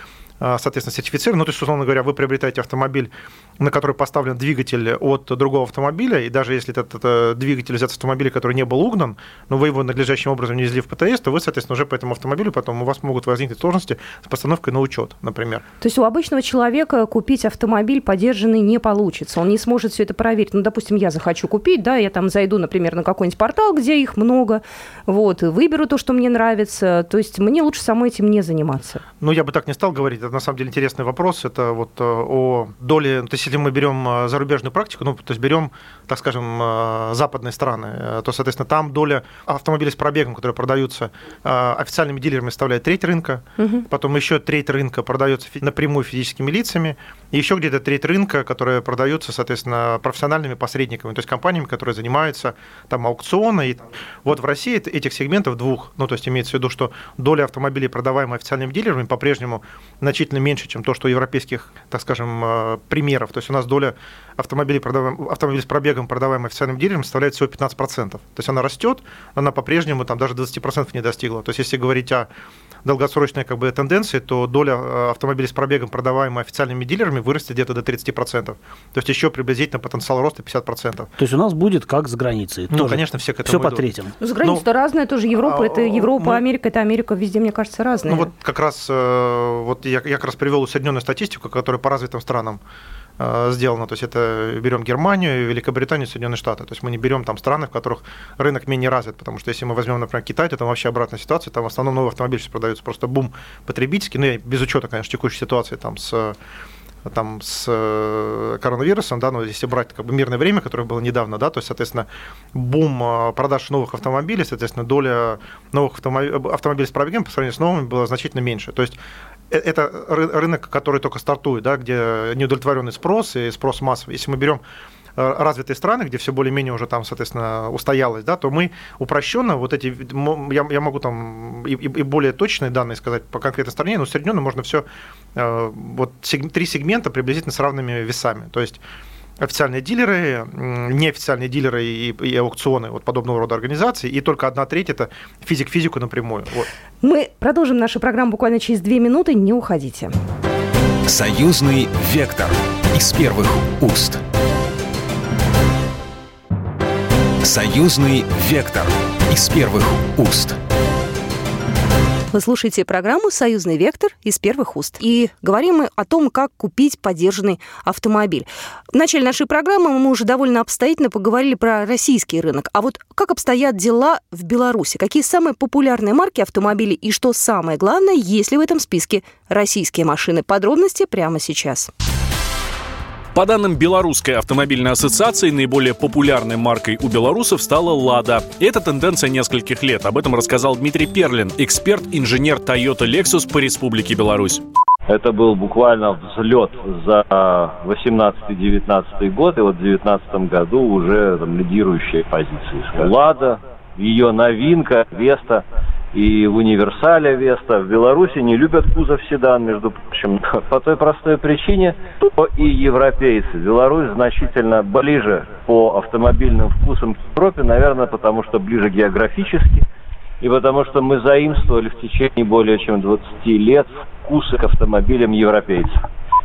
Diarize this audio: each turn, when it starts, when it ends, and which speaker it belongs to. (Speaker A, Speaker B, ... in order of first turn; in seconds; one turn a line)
Speaker A: 0.4-15.6
Speaker B: 15.8-29.0
Speaker A: 29.2-72.3
Speaker B: 43.6-43.9
Speaker A: 72.8-81.1
Speaker C: 81.2-84.1
Speaker A: 82.7-83.8
Speaker B: 84.2-88.3
Speaker A: 85.4-86.4
Speaker A: 88.1-92.6
Speaker A: 93.2-106.3
Speaker A: 107.0-119.0
Speaker A: 119.5-124.6
Speaker A: 125.2-138.8
Speaker A: 139.4-146.7
Speaker B: 147.0-150.1
Speaker D: 151.1-154.2
Speaker D: 157.4-160.6
Speaker B: 162.3-181.9
Speaker E: 183.3-194.6
Speaker F: 195.1-219.8
Speaker F: 220.4-226.0